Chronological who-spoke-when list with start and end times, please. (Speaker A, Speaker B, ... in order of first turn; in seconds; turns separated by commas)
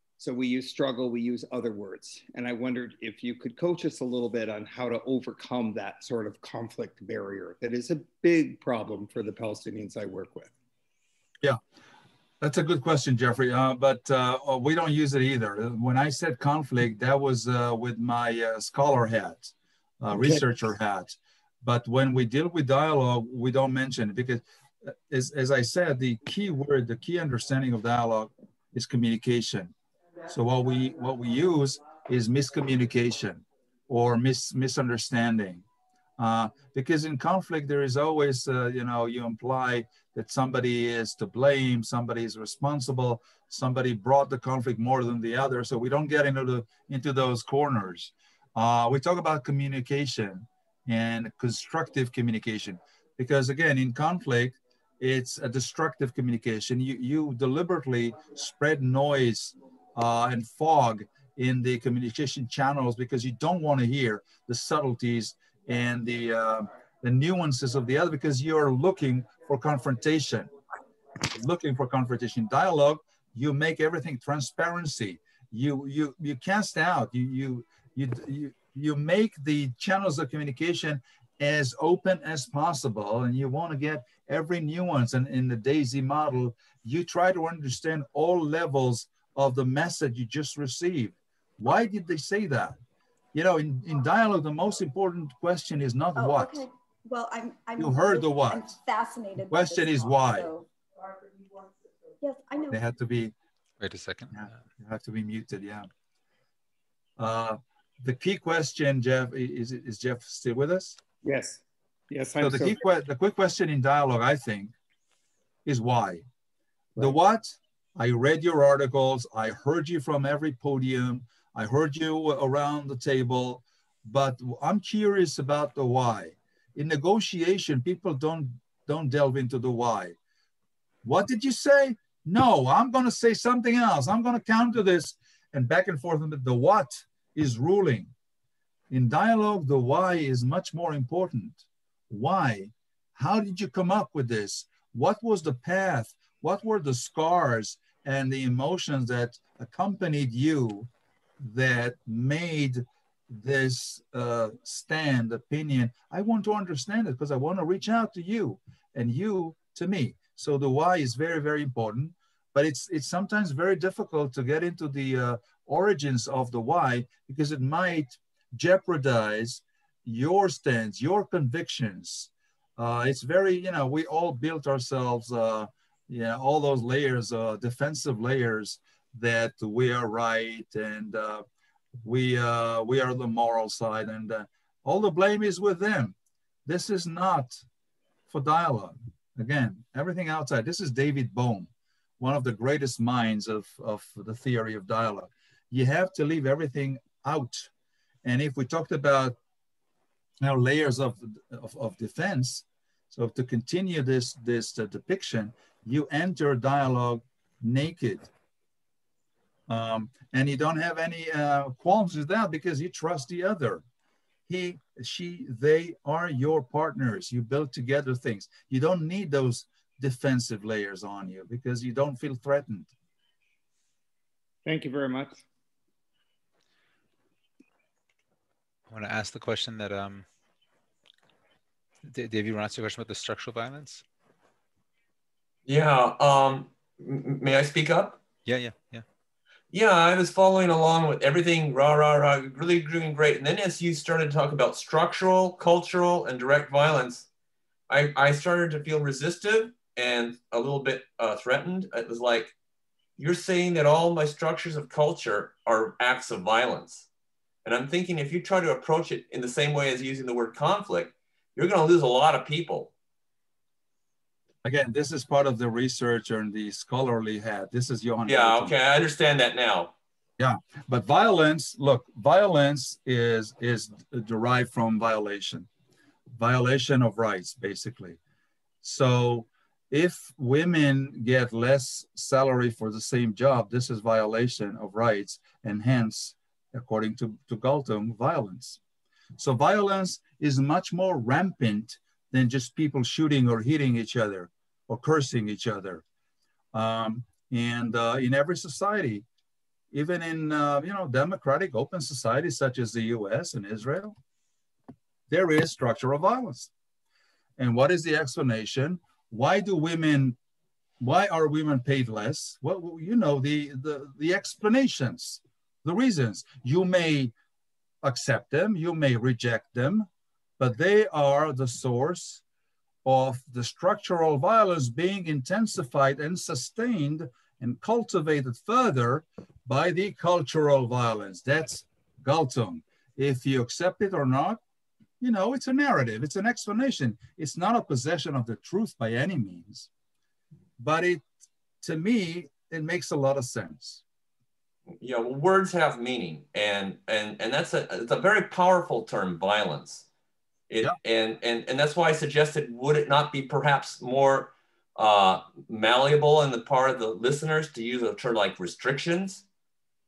Speaker A: 0.2-10.5, Speaker B: 12.4-29.7, Speaker A: 20.1-20.4, Speaker B: 30.3-35.6, Speaker B: 36.2-70.5, Speaker B: 71.3-92.8, Speaker B: 93.3-96.6, Speaker C: 96.2-100.7, Speaker B: 97.8-98.7, Speaker B: 99.5-100.5, Speaker C: 102.2-102.8, Speaker B: 102.7-103.3, Speaker D: 103.8-104.5, Speaker B: 104.3-105.9, Speaker B: 107.2-111.0, Speaker A: 111.2-112.8, Speaker B: 112.4-114.7, Speaker B: 115.6-116.3, Speaker B: 117.0-130.2, Speaker B: 131.0-138.1, Speaker B: 138.9-181.4, Speaker B: 182.0-186.1, Speaker B: 186.7-187.6, Speaker B: 188.3-197.7, Speaker B: 198.2-199.4, Speaker B: 200.4-208.3, Speaker B: 209.7-213.8, Speaker B: 214.5-222.9, Speaker A: 224.6-225.4, Speaker D: 228.9-230.2, Speaker D: 232.0-234.0, Speaker E: 235.7-238.2, Speaker D: 238.4-239.0, Speaker E: 239.7-247.3, Speaker E: 247.9-252.5, Speaker E: 253.2-257.1, Speaker E: 257.6-262.9, Speaker B: 264.6-268.7, Speaker E: 268.2-269.9, Speaker B: 270.4-275.7, Speaker B: 276.3-278.2, Speaker B: 278.8-288.8, Speaker B: 289.4-296.0, Speaker B: 296.7-299.2, Speaker B: 299.9-304.2, Speaker B: 305.3-306.7, Speaker B: 307.6-310.4, Speaker B: 311.0-317.3, Speaker B: 318.0-320.1, Speaker B: 320.6-322.4, Speaker B: 323.0-334.6, Speaker B: 335.2-339.9, Speaker B: 340.8-341.2, Speaker B: 341.8-344.0, Speaker E: 345.0-350.1, Speaker E: 350.7-359.4